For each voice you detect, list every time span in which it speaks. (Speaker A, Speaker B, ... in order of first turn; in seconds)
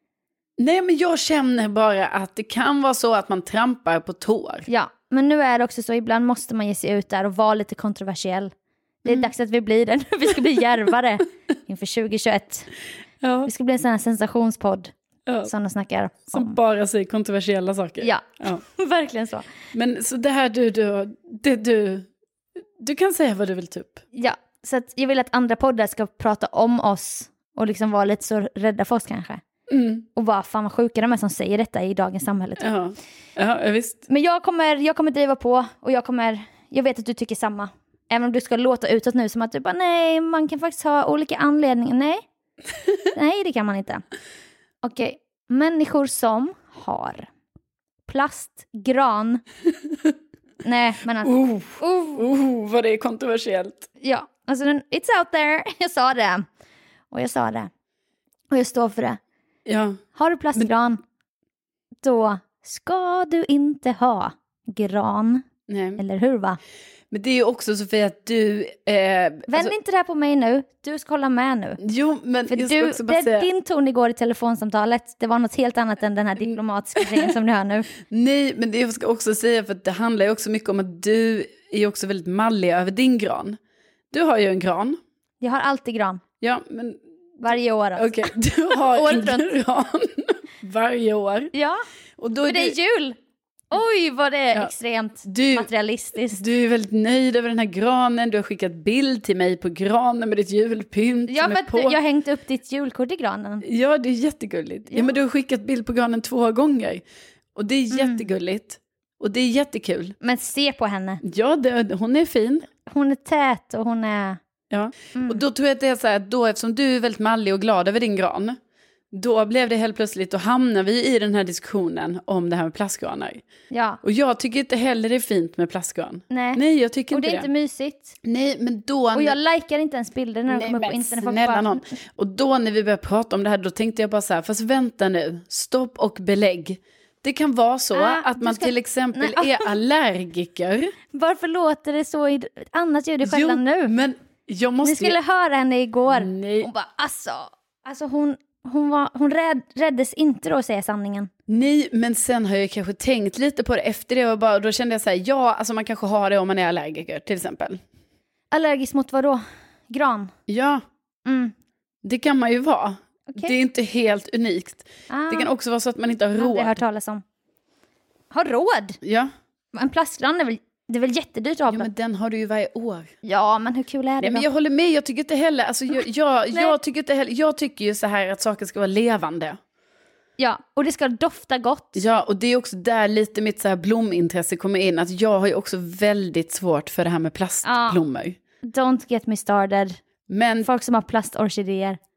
Speaker A: 0.6-4.7, 13.2-13.5, 15.3-15.5, 16.3-18.6, 19.7-22.1, 22.8-24.0, 29.7-30.1, 32.6-34.0, 49.9-50.1, 51.2-53.9, 59.7-60.0, 65.7-66.0, 67.1-69.7, 71.8-73.5, 77.0-77.3, 78.0-83.6, 84.1-85.0, 86.4-87.4, 88.0-91.5, 92.2-92.8, 95.2-95.7, 96.3-102.0, 103.6-107.0, 107.5-110.2, 111.2-112.7, 114.7-118.6, 119.1-123.5, 124.0-127.5, 128.2-129.4, 130.5-140.9, 143.2-145.2, 146.1-146.7, 151.5-157.8, 160.5-160.8, 162.0-166.8, 169.0-169.3, 171.7-173.1, 174.2-179.6, 181.9-188.4, 190.3-190.7
Speaker B: 4.7-8.5, 9.0-12.7, 13.5-14.9, 15.4-16.6, 18.0-19.5, 24.1-29.4, 30.1-32.7, 34.1-42.2, 43.1-44.0, 44.8-47.3, 48.1-49.4, 50.6-52.2, 54.0-56.5, 57.1-57.7, 58.5-59.2, 60.1-61.0, 62.0-66.6, 69.5-71.8, 72.5-77.9, 85.4-86.2, 87.4-89.5, 91.5-91.8, 92.5-93.2, 93.7-96.4, 101.3-103.7, 107.9-108.2, 110.2-111.2, 112.9-114.4, 115.2-115.4, 123.7-124.0, 126.3-128.2, 129.1-131.8, 137.9-139.7, 141.1-143.9, 144.8-151.3, 158.5-160.3, 161.2-161.5, 163.3-163.6, 165.1-165.5, 166.4-167.2, 168.3-169.0, 169.7-171.9, 173.2-174.5, 180.4-182.1, 187.6-188.0, 188.6-190.0, 190.6-192.0